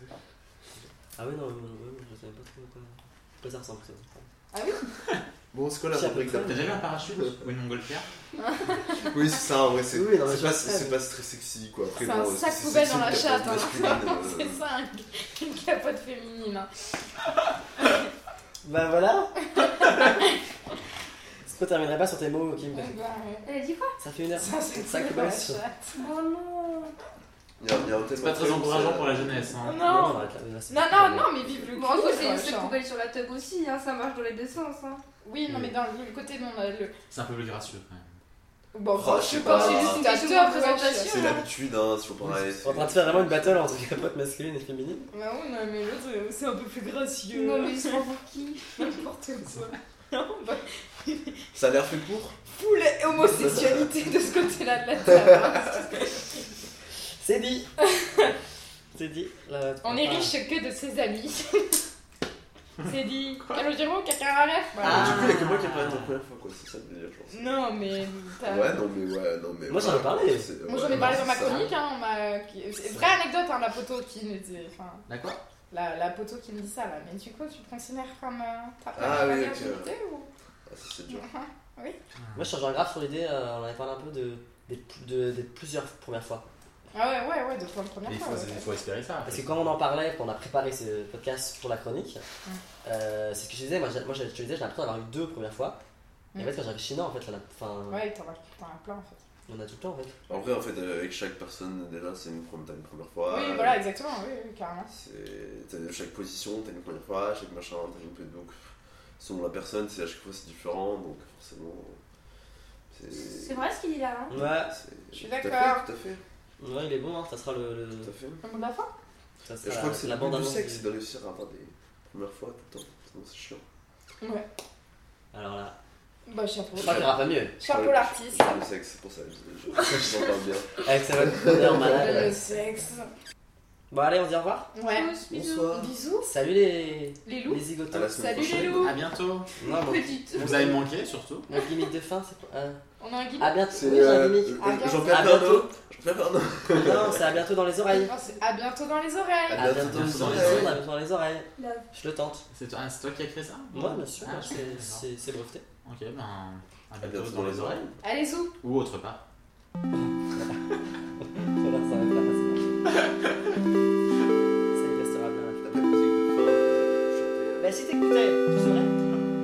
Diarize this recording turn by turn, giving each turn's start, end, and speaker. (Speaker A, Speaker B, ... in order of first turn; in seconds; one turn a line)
Speaker A: 1.2-4.3
Speaker B: 4.5-4.9
Speaker C: 5.5-7.4
Speaker A: 5.9-6.8
Speaker D: 6.5-8.1
Speaker B: 8.4-9.1
Speaker C: 9.0-14.6
Speaker A: 9.9-11.0
Speaker B: 12.0-16.7
Speaker A: 18.6-19.3
Speaker B: 19.5-20.4
Speaker A: 21.4-22.9
Speaker B: 22.7-23.5
Speaker E: 23.4-23.9
Speaker A: 24.0-25.6
Speaker B: 24.3-26.0
Speaker E: 25.9-26.9
Speaker C: 27.6-29.6
Speaker D: 28.2-30.2
Speaker A: 29.6-31.4
Speaker B: 29.6-32.8
Speaker E: 31.7-35.0
Speaker B: 35.2-36.9
Speaker A: 35.5-35.8
Speaker D: 37.1-38.2
Speaker B: 38.7-41.1
Speaker C: 38.9-40.0
Speaker E: 39.4-41.4
Speaker C: 41.0-43.7
Speaker A: 42.6-45.1
Speaker B: 45.1-48.0
Speaker E: 47.3-48.9
Speaker B: 48.8-51.3
Speaker C: 51.5-52.4
Speaker B: 52.5-56.2
Speaker A: 57.2-57.7
Speaker B: 58.0-58.3
Speaker A: 58.9-60.3
Speaker B: 59.8-61.8
Speaker B: 62.8-65.3
Speaker A: 64.8-65.5
Speaker C: 64.8-67.7
Speaker D: 64.8-66.1
Speaker B: 67.3-68.8
Speaker C: 68.4-71.7
Speaker A: 69.7-70.5
Speaker B: 70.7-75.0
Speaker D: 70.9-71.7
Speaker D: 75.1-75.4
Speaker B: 75.7-80.3
Speaker C: 79.0-79.9
Speaker C: 80.7-81.2
Speaker B: 81.1-82.0
Speaker D: 82.2-82.5
Speaker A: 82.3-86.4
Speaker B: 86.9-88.7
Speaker D: 88.0-89.7
Speaker A: 89.2-92.2
Speaker A: 92.8-95.8
Speaker A: 96.3-98.0
Speaker B: 97.9-99.2
Speaker A: 99.5-100.1
Speaker C: 100.3-103.8
Speaker B: 103.3-104.9
Speaker C: 104.9-108.6
Speaker C: 109.2-112.0
Speaker C: 112.9-113.7
Speaker E: 113.2-114.4
Speaker A: 114.3-114.7
Speaker C: 114.3-116.2
Speaker B: 115.1-115.8
Speaker A: 116.6-118.1
Speaker C: 118.0-118.4
Speaker B: 118.4-118.9
Speaker A: 119.5-120.9
Speaker C: 119.6-123.6
Speaker A: 125.3-125.7
Speaker B: 126.2-128.6
Speaker C: 126.8-131.8
Speaker A: 126.8-127.5
Speaker A: 130.8-132.3
Speaker B: 131.8-133.1
Speaker A: 133.9-134.7
Speaker B: 134.7-135.1
Speaker E: 134.8-135.7
Speaker C: 135.3-135.9
Speaker B: 135.7-136.3
Speaker A: 136.2-138.2
Speaker B: 137.2-138.9
Speaker C: 137.9-138.9
Speaker D: 138.7-139.5
Speaker A: 139.6-140.8
Speaker E: 139.7-140.7
Speaker D: 140.3-141.4
Speaker A: 141.5-142.8
Speaker B: 143.0-143.6
Speaker A: 143.4-145.7
Speaker C: 143.7-147.4
Speaker B: 144.6-145.2
Speaker A: 146.7-148.1
Speaker B: 147.9-149.8
Speaker C: 149.5-150.8
Speaker A: 149.5-152.4
Speaker D: 149.8-150.8
Speaker E: 151.6-151.9
Speaker D: 152.5-155.0
Speaker A: 153.7-155.6
Speaker D: 155.8-157.8
Speaker C: 157.0-157.9
Speaker B: 158.0-158.5
Speaker D: 158.6-159.2
Speaker A: 161.2-162.9
Speaker A: 164.7-165.7
Speaker C: 165.6-167.7
Speaker A: 167.6-169.0